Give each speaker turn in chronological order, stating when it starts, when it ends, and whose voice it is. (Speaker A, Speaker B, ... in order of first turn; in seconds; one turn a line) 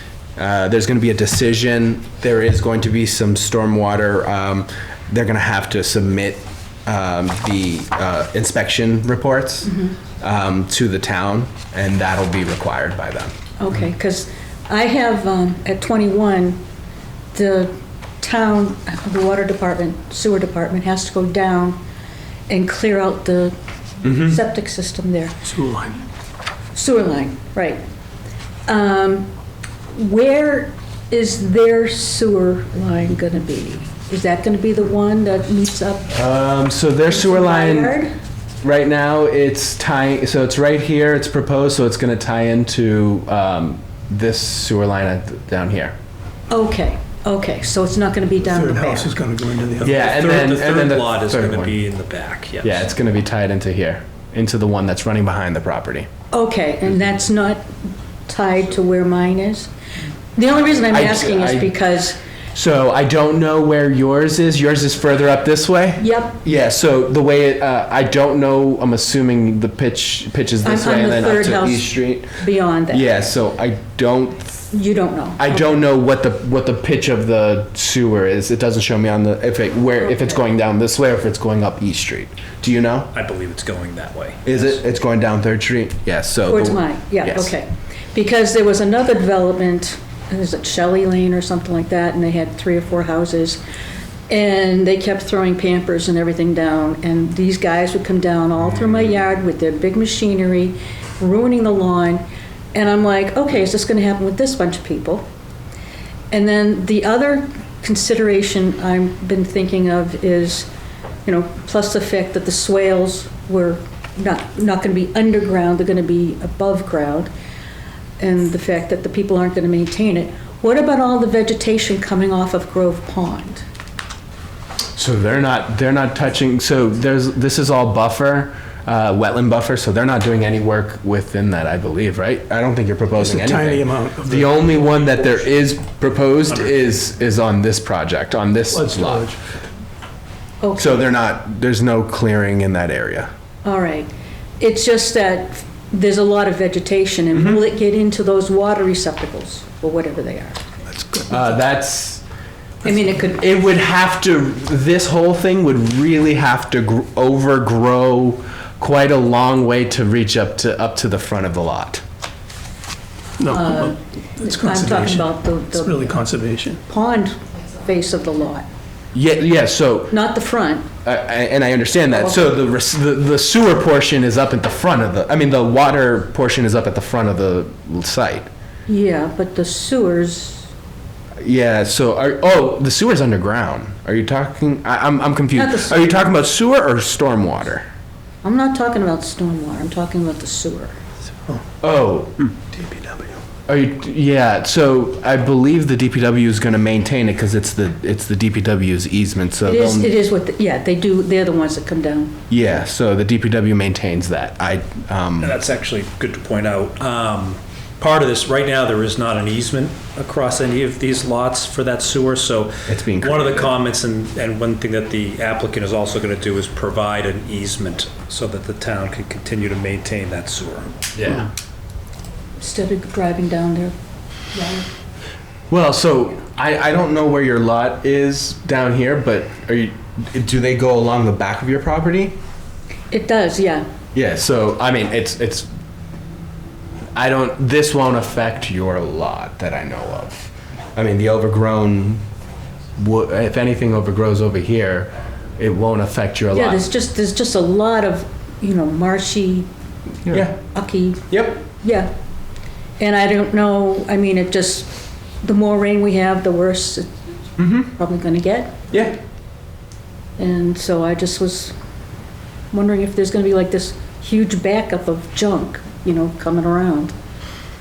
Speaker A: 0.3-13.3
Speaker B: 9.7-9.9
Speaker B: 13.6-16.6
Speaker B: 17.3-21.8
Speaker B: 22.5-25.4
Speaker A: 24.0-24.4
Speaker B: 26.7-27.8
Speaker B: 28.7-29.3
Speaker B: 29.9-36.1
Speaker A: 36.1-38.0
Speaker B: 37.1-38.1
Speaker A: 38.6-45.9
Speaker B: 46.5-49.1
Speaker C: 48.6-50.0
Speaker A: 49.8-51.8
Speaker D: 50.0-52.9
Speaker A: 52.6-56.1
Speaker B: 56.3-57.7
Speaker B: 58.3-59.7
Speaker B: 60.4-62.2
Speaker A: 60.8-61.7
Speaker A: 62.5-74.6
Speaker B: 66.0-66.4
Speaker B: 70.6-73.1
Speaker B: 74.7-75.8
Speaker A: 75.4-83.1
Speaker B: 80.1-80.4
Speaker D: 83.1-84.6
Speaker A: 84.4-87.5
Speaker B: 86.5-93.6
Speaker B: 94.3-105.3
Speaker B: 106.3-110.7
Speaker B: 111.2-117.3
Speaker B: 118.2-123.6
Speaker A: 125.0-139.3
Speaker C: 133.2-134.7
Speaker C: 138.7-139.3
Speaker B: 140.6-141.0
Speaker A: 140.7-143.3
Speaker B: 143.6-150.6
Speaker A: 151.3-152.2
Speaker B: 152.8-153.5
Speaker A: 153.3-162.0
Speaker C: 163.5-165.3
Speaker B: 163.5-166.2
Speaker C: 165.8-166.8
Speaker B: 166.9-168.7
Speaker A: 169.1-170.2
Speaker B: 170.1-170.9
Speaker A: 171.0-178.5
Speaker B: 172.1-172.4
Speaker B: 178.9-180.7
Speaker A: 181.4-187.8
Speaker B: 185.5-186.3
Speaker B: 188.4-191.0
Speaker A: 191.8-192.4
Speaker A: 193.7-200.1
Speaker B: 199.6-202.4
Speaker A: 202.5-205.6
Speaker D: 205.4-220.9
Speaker A: 212.9-213.7
Speaker A: 221.1-221.5
Speaker B: 222.6-223.9
Speaker B: 224.5-224.9
Speaker A: 225.7-232.3
Speaker B: 233.1-233.9
Speaker A: 234.1-235.7
Speaker A: 237.1-242.2
Speaker A: 243.0-246.8
Speaker B: 246.5-249.7
Speaker A: 250.2-250.6
Speaker B: 250.6-252.1
Speaker A: 251.3-251.6
Speaker B: 253.0-258.8
Speaker A: 257.6-257.9
Speaker A: 258.9-259.1
Speaker B: 260.4-261.7
Speaker B: 262.7-267.1